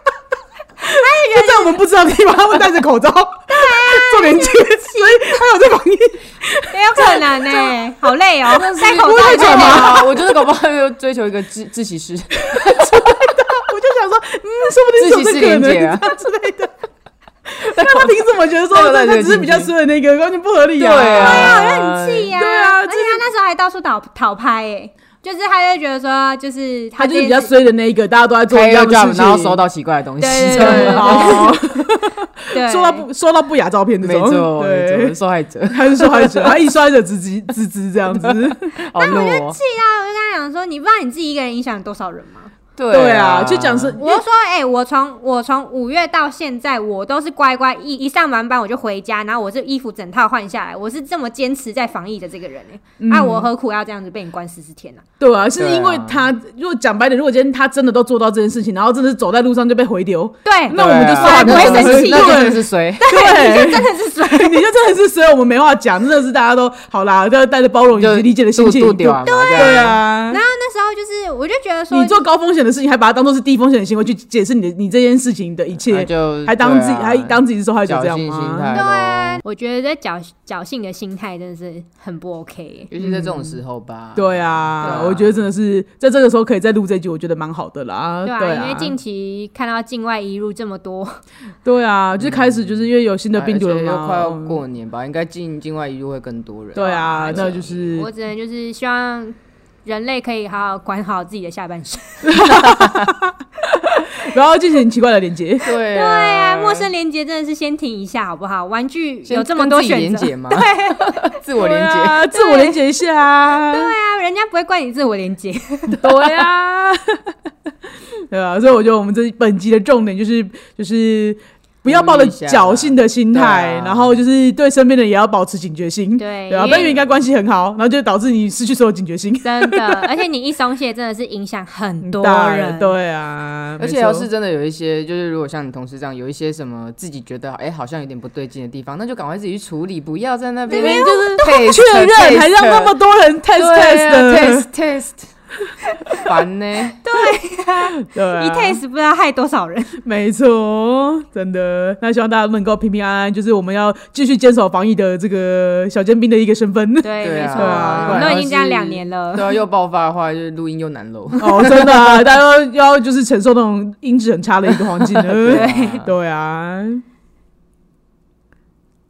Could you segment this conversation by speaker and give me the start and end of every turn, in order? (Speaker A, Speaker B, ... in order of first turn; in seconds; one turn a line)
Speaker A: 0.8-7.8
Speaker B: 0.9-1.8
Speaker B: 3.5-5.4
Speaker B: 6.7-10.1
Speaker C: 8.5-13.3
Speaker A: 8.9-10.3
Speaker A: 12.5-16.7
Speaker C: 15.0-16.1
Speaker A: 17.5-21.8
Speaker C: 17.8-19.7
Speaker C: 20.8-22.3
Speaker B: 21.2-27.5
Speaker A: 22.4-23.2
Speaker A: 27.0-29.6
Speaker C: 28.5-31.4
Speaker B: 30.2-31.6
Speaker A: 30.5-35.1
Speaker B: 32.5-33.1
Speaker C: 34.0-36.5
Speaker A: 35.7-38.6
Speaker C: 38.2-39.6
Speaker B: 39.0-42.5
Speaker C: 42.8-44.0
Speaker A: 42.9-44.2
Speaker B: 44.0-55.0
Speaker A: 53.0-53.5
Speaker A: 55.2-70.4
Speaker C: 55.6-56.2
Speaker B: 60.5-64.6
Speaker C: 60.7-63.0
Speaker C: 68.0-70.0
Speaker B: 69.2-72.2
Speaker A: 71.9-78.7
Speaker C: 75.9-79.4
Speaker B: 78.7-82.9
Speaker C: 82.9-85.4
Speaker A: 83.0-83.6
Speaker A: 84.2-89.0
Speaker B: 88.2-91.2
Speaker A: 91.7-94.6
Speaker C: 92.2-92.5
Speaker C: 93.3-98.0
Speaker A: 96.8-98.1
Speaker B: 96.8-102.5
Speaker A: 102.3-105.6
Speaker C: 105.6-106.9
Speaker B: 105.7-111.4
Speaker C: 109.3-112.2
Speaker A: 111.6-113.9
Speaker B: 112.3-112.8
Speaker B: 113.5-116.0
Speaker A: 116.0-117.3
Speaker A: 118.3-130.1
Speaker C: 121.8-124.2
Speaker B: 126.2-126.9
Speaker C: 126.6-127.1
Speaker B: 129.4-132.9
Speaker A: 132.0-134.3
Speaker C: 133.8-142.9
Speaker B: 140.7-141.6
Speaker A: 140.7-144.7
Speaker C: 143.6-145.3
Speaker C: 146.1-147.0
Speaker B: 147.0-150.0
Speaker A: 148.0-148.8
Speaker A: 150.0-158.4
Speaker B: 157.0-159.5
Speaker C: 157.2-162.2
Speaker A: 161.4-167.0
Speaker C: 165.2-166.1
Speaker B: 165.4-166.1